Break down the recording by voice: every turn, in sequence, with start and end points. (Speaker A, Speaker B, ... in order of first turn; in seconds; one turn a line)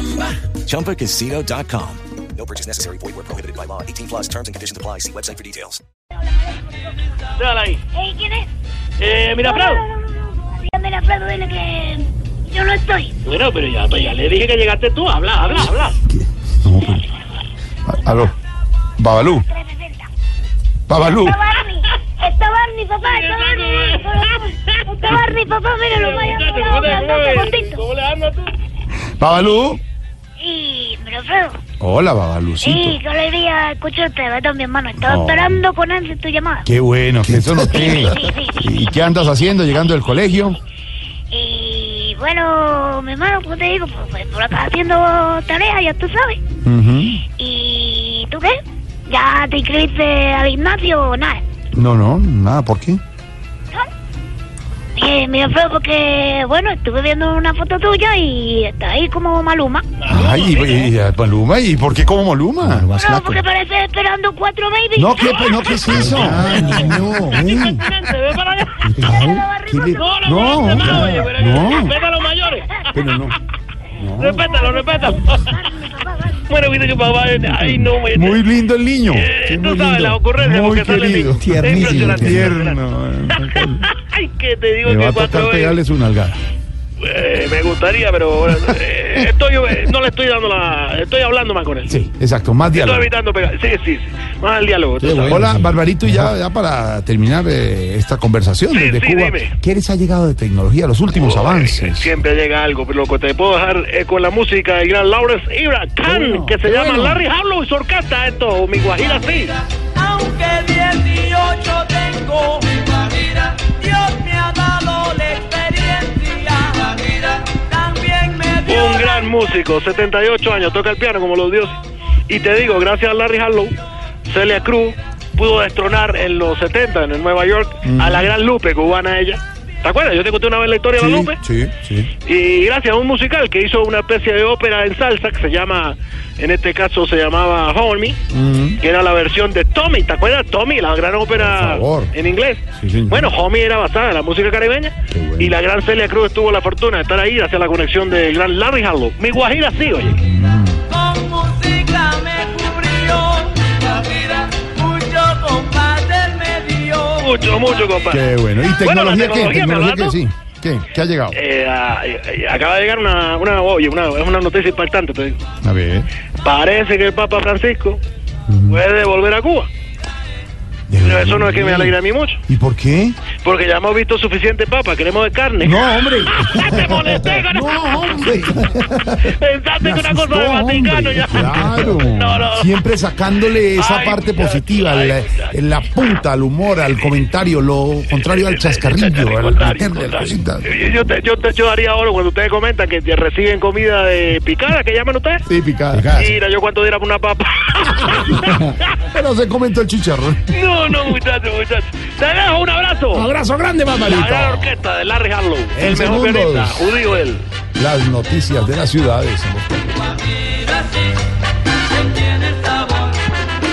Speaker A: 0.4-5.8
Speaker B: 6.2-6.9
Speaker C: 7.4-7.8
Speaker B: 7.9-8.5
Speaker C: 9.0-9.8
Speaker B: 9.4-13.2
Speaker C: 13.2-16.0
Speaker D: 16.1-17.1
Speaker D: 17.9-18.3
Speaker D: 19.0-19.5
Speaker B: 19.5-20.1
Speaker D: 20.9-21.4
Speaker B: 21.0-27.8
Speaker C: 23.0-25.3
Speaker C: 25.9-28.6
Speaker D: 29.2-29.8
Speaker B: 30.4-31.6
Speaker D: 31.8-33.0
Speaker B: 32.6-36.7
Speaker D: 35.0-35.6
Speaker D: 36.6-40.6
Speaker B: 37.9-38.6
Speaker B: 41.3-46.4
Speaker D: 46.6-47.2
Speaker B: 47.4-48.6
Speaker B: 49.1-51.4
Speaker D: 51.7-53.0
Speaker B: 55.0-59.9
Speaker C: 60.0-60.9
Speaker D: 60.1-62.9
Speaker B: 63.0-66.0
Speaker E: 63.1-63.4
Speaker D: 65.0-67.8
Speaker C: 65.2-68.9
Speaker E: 65.9-67.3
Speaker D: 68.8-72.0
Speaker B: 69.0-71.3
Speaker E: 69.1-69.4
Speaker C: 70.0-73.0
Speaker D: 72.9-73.4
Speaker D: 74.0-74.5
Speaker C: 74.2-75.6
Speaker B: 74.3-76.5
Speaker C: 76.5-78.4
Speaker D: 77.5-83.9
Speaker C: 79.1-82.8
Speaker E: 81.5-82.6
Speaker C: 83.3-85.8
Speaker D: 84.8-86.4
Speaker C: 87.0-91.9
Speaker D: 88.5-89.2
Speaker D: 91.9-93.1
Speaker C: 92.7-95.4
Speaker E: 95.0-96.1
Speaker D: 95.2-102.1
Speaker C: 98.7-99.5
Speaker C: 101.1-109.6
Speaker D: 106.0-107.2
Speaker E: 110.0-119.1
Speaker C: 118.6-131.4
Speaker D: 127.8-128.3
Speaker D: 131.0-132.1
Speaker C: 132.2-138.2
Speaker D: 138.3-138.8
Speaker C: 138.8-150.2
Speaker D: 141.3-142.1
Speaker D: 142.8-143.3
Speaker D: 145.1-145.6
Speaker D: 150.1-150.8
Speaker E: 150.9-157.3
Speaker C: 157.2-158.3
Speaker D: 158.1-161.4
Speaker C: 158.8-160.2
Speaker C: 161.3-165.4
Speaker D: 165.6-166.1
Speaker C: 166.4-168.0
Speaker D: 168.5-168.8
Speaker C: 168.7-169.7
Speaker D: 170.9-172.0
Speaker C: 171.0-172.4
Speaker D: 172.5-173.2
Speaker C: 173.4-178.3
Speaker D: 175.6-178.8
Speaker E: 178.4-179.2
Speaker C: 179.2-182.7
Speaker D: 179.8-190.8
Speaker E: 181.3-182.0
Speaker C: 183.8-185.5
Speaker C: 188.2-195.4
Speaker D: 195.5-196.4
Speaker C: 196.1-198.8
Speaker D: 198.2-200.5
Speaker C: 200.5-203.3
Speaker D: 203.1-204.8
Speaker C: 204.0-207.5
Speaker D: 205.7-206.9
Speaker D: 207.8-210.1